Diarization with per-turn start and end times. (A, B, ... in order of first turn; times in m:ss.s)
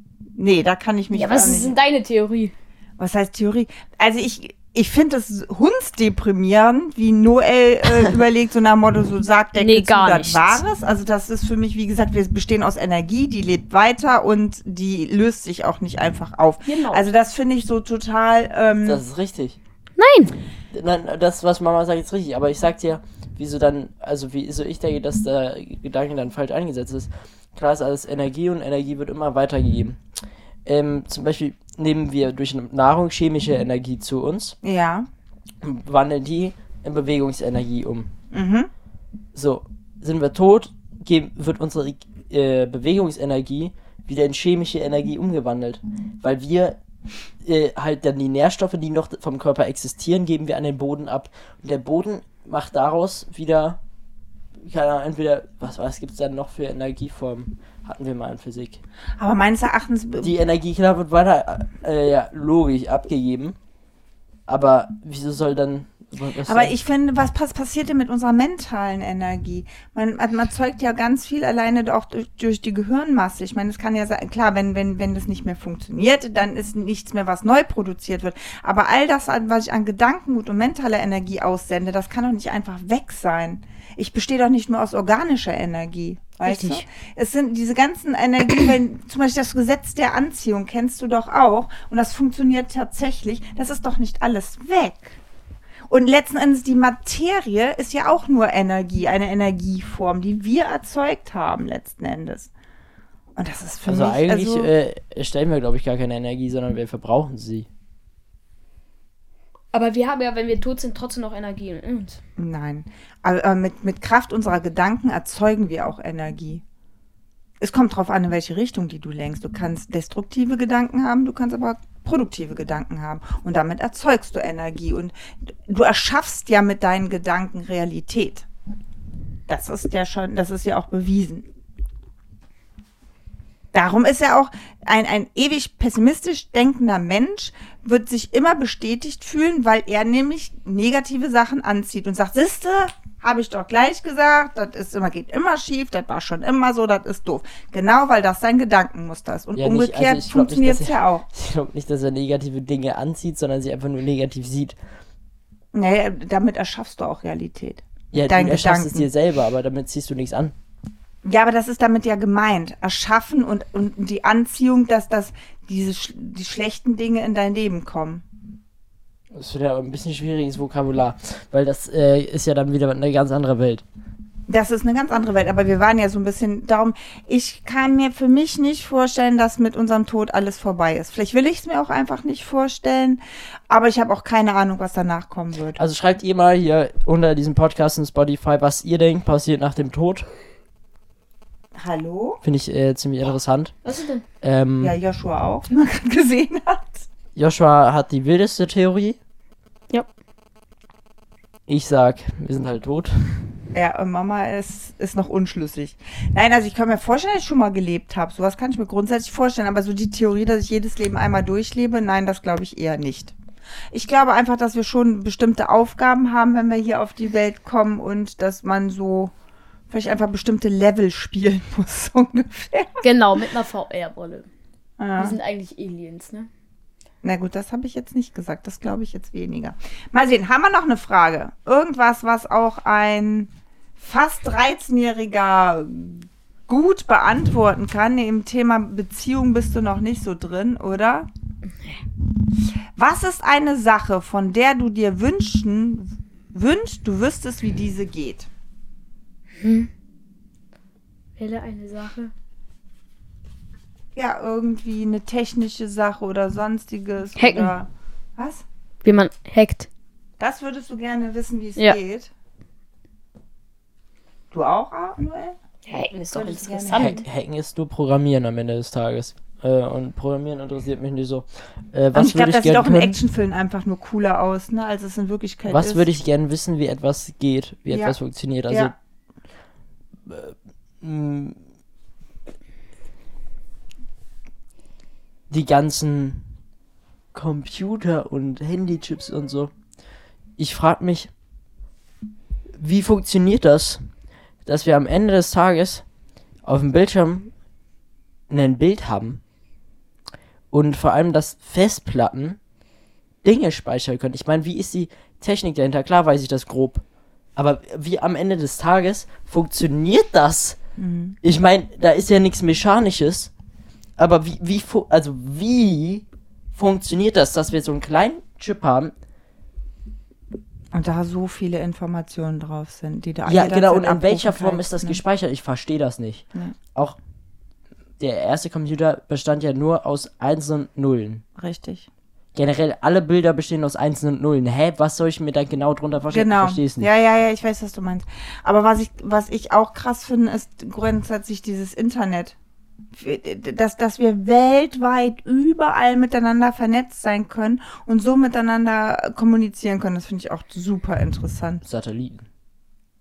0:00.4-0:01.8 A
0:01.1-0:02.5 B
0:03.0-0:19.0 A
0:09.6-0:10.6 B
0:16.6-0:17.1 B
0:18.8-0:19.6 C
0:20.0-0:20.4 B
0:20.7-0:30.0 C
0:30.6-0:34.6 C
0:34.6-0:35.1 A
0:35.6-0:38.1 C
0:38.3-0:38.7 A
0:39.3-0:46.8 C
0:47.4-0:53.8 C
0:54.6-0:58.8 C
0:59.2-1:00.3 A
1:00.2-1:03.6 C
1:04.5-1:06.7 C
1:06.5-1:35.2 A
1:26.5-1:26.8 B
1:35.9-1:42.5 A
1:43.4-1:44.7 A
1:43.9-1:47.7 C
1:49.7-1:52.2 B
1:52.4-1:56.6 A
1:57.6-2:08.5 A
2:09.5-2:11.5 A
2:13.7-2:31.2 A
2:29.6-2:34.8 C
2:35.7-2:39.1 A
2:38.1-2:40.5 C
2:41.2-2:48.2 A
2:49.3-2:53.8 C
2:54.5-3:05.8 A
3:05.8-3:10.3 C
3:11.8-3:12.4 A
3:12.4-3:13.8 C
3:13.8-3:14.2 B
3:14.4-3:15.0 C
3:14.8-3:17.1 A
3:17.4-3:19.2 C
3:21.7-3:23.1 C
3:23.7-3:33.4 A
3:33.9-3:39.3 A
3:39.9-3:43.0 A
3:43.0-3:44.5 B
3:45.0-3:45.4 A
3:45.2-3:46.5 B
3:47.2-4:01.3 A
4:03.0-4:08.5 A
4:09.6-4:09.9 B
4:11.4-4:12.3 B
4:14.2-4:18.6 A
4:17.4-4:17.7 B
4:19.0-4:19.9 B
4:20.4-4:22.3 A
4:24.5-4:25.6 A
4:25.9-4:27.2 B
4:26.3-4:27.2 A
4:26.9-4:33.2 C
4:32.1-4:36.1 A
4:35.7-4:38.9 C
4:37.9-4:38.2 A
4:38.7-4:38.9 A
4:40.3-4:41.6 C
4:45.5-4:46.4 C
4:47.3-4:49.7 C
4:50.6-4:51.3 C
4:52.8-4:54.1 C
4:54.6-4:56.0 C
4:56.6-4:57.5 C
4:58.5-4:59.4 C
5:00.7-5:02.6 C
5:03.4-5:07.0 C
5:07.6-5:10.8 C
5:11.0-5:11.4 A
5:11.4-5:13.5 C
5:14.2-5:19.1 C
5:20.9-5:25.2 A
5:23.5-5:27.2 C
5:28.2-5:31.4 C
5:31.6-5:32.1 A
5:32.6-5:37.1 C
5:36.3-5:42.6 A
5:43.2-5:51.8 A
5:51.8-5:52.5 C